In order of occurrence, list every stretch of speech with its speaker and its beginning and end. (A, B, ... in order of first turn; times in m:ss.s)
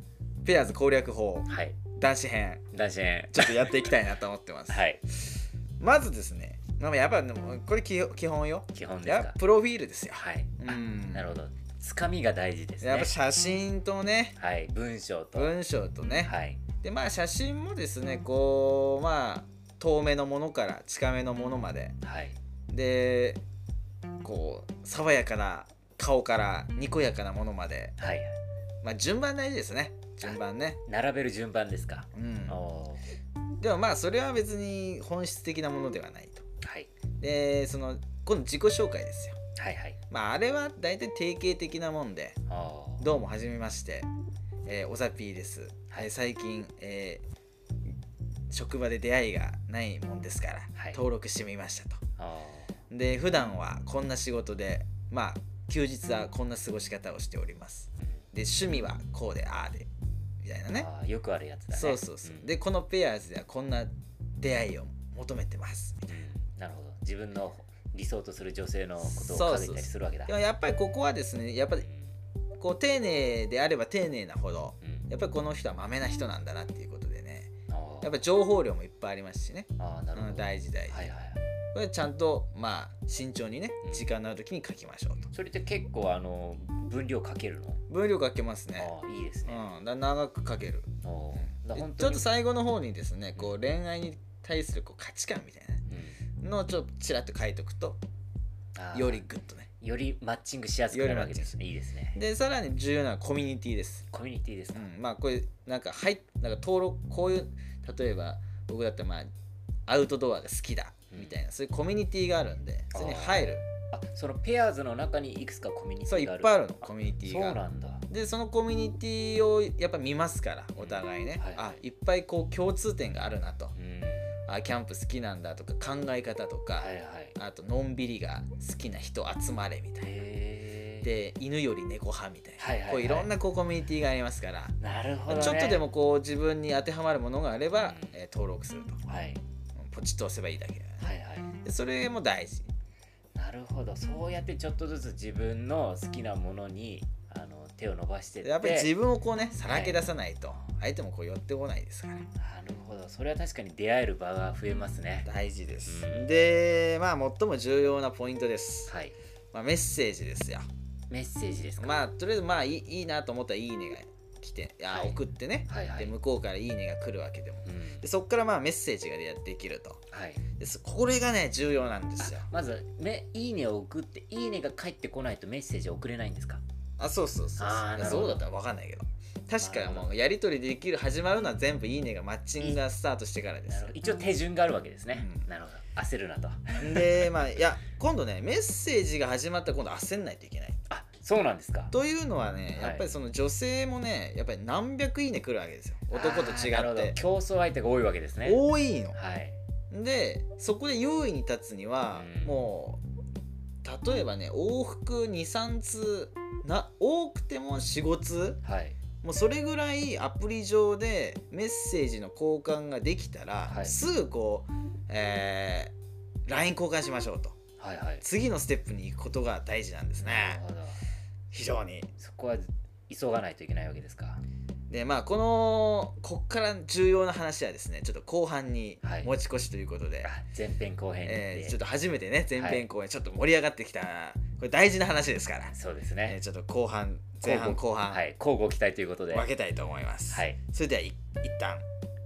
0:00.4-0:02.7 A
0:01.5-0:01.8 B
0:02.7-0:03.9 B
0:03.3-0:04.8 A
0:04.7-0:05.0 B
0:05.8-0:11.4 A
0:08.7-0:09.4 B
0:10.1-0:13.1 B
0:12.8-0:14.4 A
0:14.4-0:15.6 B
0:15.4-0:22.0 A
0:16.2-0:16.6 B
0:22.0-0:22.4 B
0:22.7-0:23.4 A
0:24.2-0:28.0 A
0:28.0-0:28.3 B
0:28.8-0:30.8 A
0:30.2-0:33.1 B
0:32.1-0:32.6 A
0:33.6-0:36.4 A
0:36.6-0:36.9 B
0:37.2-0:39.4 A
0:39.6-0:40.0 B
0:40.1-0:42.4 A
0:42.5-0:43.1 B
0:43.0-0:44.1 A
0:44.7-0:47.2 A
0:48.5-0:52.0 A
0:50.8-0:51.0 B
0:52.2-0:52.7 B
0:52.9-0:59.9 A
1:00.4-1:00.9 A
1:00.7-1:02.5 B
1:01.7-1:06.2 A
1:06.1-1:10.4 B
1:09.0-1:11.9 A
1:11.8-1:12.1 B
1:12.6-1:21.1 A
1:14.8-1:15.1 B
1:17.7-1:18.2 B
1:19.8-1:21.4 B
1:21.7-1:25.3 A
1:23.8-1:24.1 B
1:25.3-1:27.8 B
1:27.9-1:28.9 A
1:28.8-1:29.7 B
1:29.5-1:35.9 A
1:31.0-1:32.3 B
1:35.9-1:36.2 B
1:36.4-1:38.0 A
1:38.8-1:39.2 B
1:38.9-1:39.7 A
1:39.8-1:42.2 B
1:40.9-1:41.6 A
1:42.2-1:44.1 A
1:44.1-1:44.9 B
1:44.7-1:49.3 A
1:49.9-1:53.6 A
1:51.1-1:51.4 B
1:52.9-1:58.1 B
1:56.1-2:03.7 A
2:00.8-2:01.8 B
2:03.8-2:04.3 B
2:04.5-2:10.1 A
2:06.8-2:07.3 B
2:10.0-2:11.1 B
2:11.0-2:14.8 A
2:12.6-2:13.3 B
2:14.8-2:15.8 B
2:15.3-2:19.0 A
2:17.8-2:18.2 B
2:19.1-2:19.4 B
2:19.8-2:21.1 A
2:21.0-2:21.5 B
2:21.6-2:22.7 A
2:23.4-2:28.9 B
2:28.4-2:32.3 A
2:29.6-2:30.7 B
2:32.4-2:35.3 B
2:35.2-2:38.9 A
2:35.9-2:36.3 B
2:38.9-2:39.2 B
2:39.5-2:40.7 A
2:41.1-2:42.0 B
2:41.8-2:50.0 A
2:44.9-2:46.1 B
2:47.7-2:48.0 B
2:50.1-2:50.4 B
2:50.6-2:52.5 A
2:52.2-2:56.6 B
2:57.0-3:03.9 A
2:57.6-2:58.4 B
2:59.6-3:00.1 B
3:03.7-3:07.3 B
3:05.1-3:05.5 A
3:06.8-3:10.8 A
3:10.9-3:11.9 B
3:11.9-3:17.2 A
3:12.8-3:13.1 B
3:16.1-3:19.6 B
3:18.4-3:19.2 A
3:19.9-3:23.0 A
3:22.1-3:22.6 B
3:23.8-3:28.6 A
3:28.6-3:29.0 B
3:29.2-3:35.9 A
3:33.7-3:34.0 B
3:36.5-3:37.6 A
3:37.8-3:38.2 B
3:38.2-3:40.6 A
3:40.2-3:41.0 B
3:41.5-3:42.1 A
3:42.2-3:44.4 B
3:44.9-3:50.3 A
3:49.0-3:49.3 B
3:50.2-3:51.8 B
3:51.2-3:55.7 A
3:52.6-3:52.8 B
3:55.7-3:56.4 B
3:56.2-3:58.2 A
3:57.4-3:59.5 B
3:59.3-4:01.8 A
4:00.3-4:00.6 B